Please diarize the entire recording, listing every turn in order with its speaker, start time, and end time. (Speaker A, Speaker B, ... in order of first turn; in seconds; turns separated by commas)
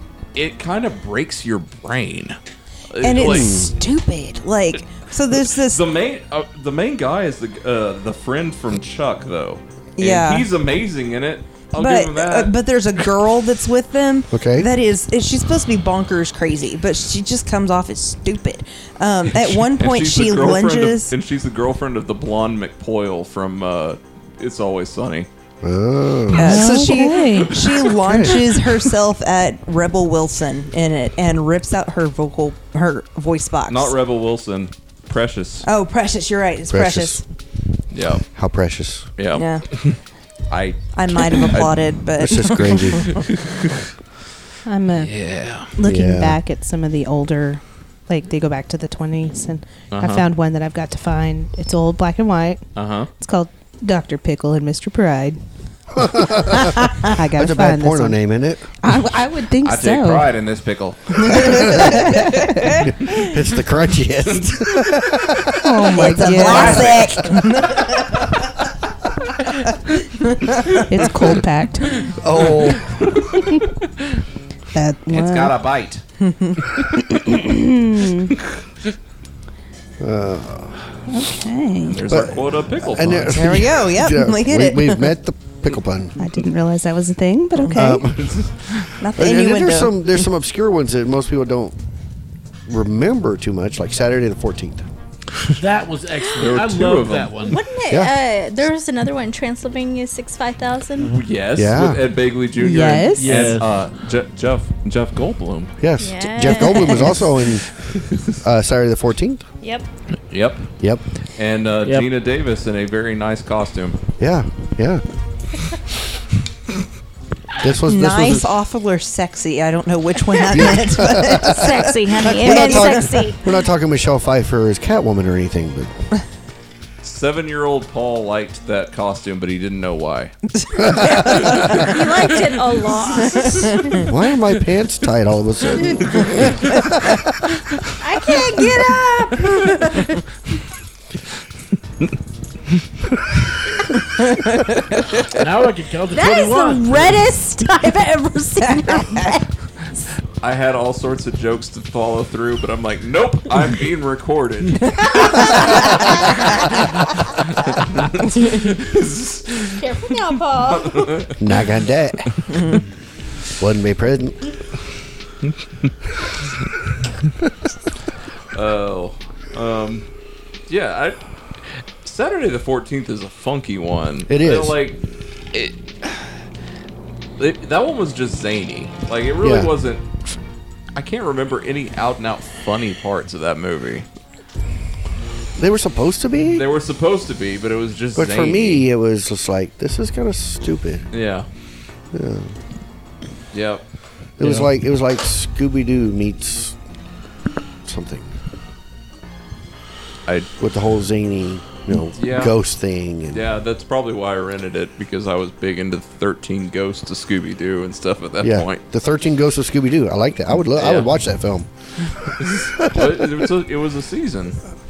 Speaker A: 0.3-2.4, Speaker A: 2.9-3.6, Speaker B: 3.0-5.8, Speaker C: 3.2-3.7, Speaker A: 5.5-13.0, Speaker B: 10.0-10.5, Speaker B: 11.8-21.1, Speaker C: 14.3-14.7, Speaker A: 19.4-25.3, Speaker C: 25.6-26.9, Speaker D: 26.3-27.6, Speaker B: 26.3-33.9, Speaker A: 27.3-27.8, Speaker C: 28.0-28.4, Speaker A: 33.7-35.7, Speaker B: 35.6-37.2, Speaker C: 36.7-37.2, Speaker A: 37.9-38.2, Speaker C: 38.3-39.1, Speaker A: 39.2-40.0, Speaker B: 39.3-39.6, Speaker A: 40.5-41.9, Speaker B: 40.9-43.2, Speaker C: 42.2-43.1, Speaker A: 43.3-43.8, Speaker D: 44.6-45.1, Speaker A: 45.0-45.7, Speaker D: 45.8-52.6, Speaker C: 45.8-46.4, Speaker A: 49.9-50.2, Speaker A: 52.7-53.1, Speaker D: 53.2-55.4, Speaker C: 55.9-58.7, Speaker D: 57.1-58.2, Speaker D: 58.8-60.3, Speaker A: 59.6-61.8, Speaker B: 61.2-62.9, Speaker C: 61.5-61.9, Speaker D: 61.7-62.7, Speaker C: 62.8-65.6, Speaker A: 64.3-65.4, Speaker D: 65.6-67.0, Speaker B: 65.9-68.3, Speaker A: 66.4-67.4, Speaker C: 66.5-67.4, Speaker B: 70.2-70.8, Speaker D: 70.9-72.0, Speaker A: 72.1-73.2, Speaker C: 72.2-73.2, Speaker D: 73.4-73.6, Speaker D: 74.7-75.5, Speaker A: 75.1-76.0, Speaker B: 76.2-76.8, Speaker D: 77.2-78.3, Speaker C: 80.0-80.8, Speaker D: 81.1-82.0, Speaker A: 81.9-83.6, Speaker C: 82.0-86.2, Speaker B: 83.2-85.1, Speaker D: 86.2-88.1, Speaker B: 87.6-87.9, Speaker C: 87.7-88.4, Speaker A: 88.2-88.9, Speaker B: 89.0-90.2, Speaker C: 89.1-91.8, Speaker C: 92.7-94.8, Speaker E: 95.5-97.6, Speaker A: 96.4-97.5, Speaker F: 97.4-101.2, Speaker A: 101.1-105.8, Speaker C: 101.5-102.0, Speaker D: 102.6-103.5, Speaker E: 103.1-103.7, Speaker C: 105.8-107.7, Speaker F: 106.0-107.2, Speaker C: 108.2-109.4, Speaker A: 110.3-110.7, Speaker A: 111.3-114.0, Speaker C: 114.2-115.0, Speaker C: 117.6-118.6, Speaker B: 117.8-123.3, Speaker F: 120.3-120.7, Speaker C: 120.5-121.7, Speaker F: 121.4-123.4, Speaker C: 122.4-125.9, Speaker A: 127.0-130.3, Speaker B: 130.6-132.2, Speaker C: 130.8-131.2, Speaker F: 131.3-134.0, Speaker B: 133.2-134.0, Speaker C: 134.1-137.3, Speaker F: 138.0-140.2, Speaker B: 144.4-144.8, Speaker E: 145.3-147.2, Speaker F: 146.1-149.4, Speaker B: 148.7-149.3, Speaker A: 150.4-156.5, Speaker F: 155.2-155.7, Speaker A: 157.7-159.9, Speaker F: 159.8-161.3, Speaker A: 160.5-161.3, Speaker C: 161.4-162.4, Speaker B: 162.5-162.8, Speaker C: 163.6-164.4, Speaker A: 168.5-170.1, Speaker A: 170.7-175.0, Speaker C: 174.3-174.8, Speaker A: 175.5-176.4, Speaker A: 177.4-180.2, Speaker C: 179.4-179.7, Speaker A: 180.9-184.1, Speaker C: 185.6-186.6, Speaker A: 186.5-188.8, Speaker C: 188.1-191.1, Speaker A: 191.1-191.5, Speaker C: 192.1-192.6, Speaker A: 193.5-193.8, Speaker C: 194.4-196.8, Speaker A: 194.4-194.7, Speaker C: 197.8-198.3, Speaker C: 200.6-203.4, Speaker A: 202.1-202.6, Speaker A: 203.3-208.8, Speaker C: 208.4-211.7, Speaker A: 210.8-211.1, Speaker A: 212.4-214.6, Speaker C: 212.8-213.4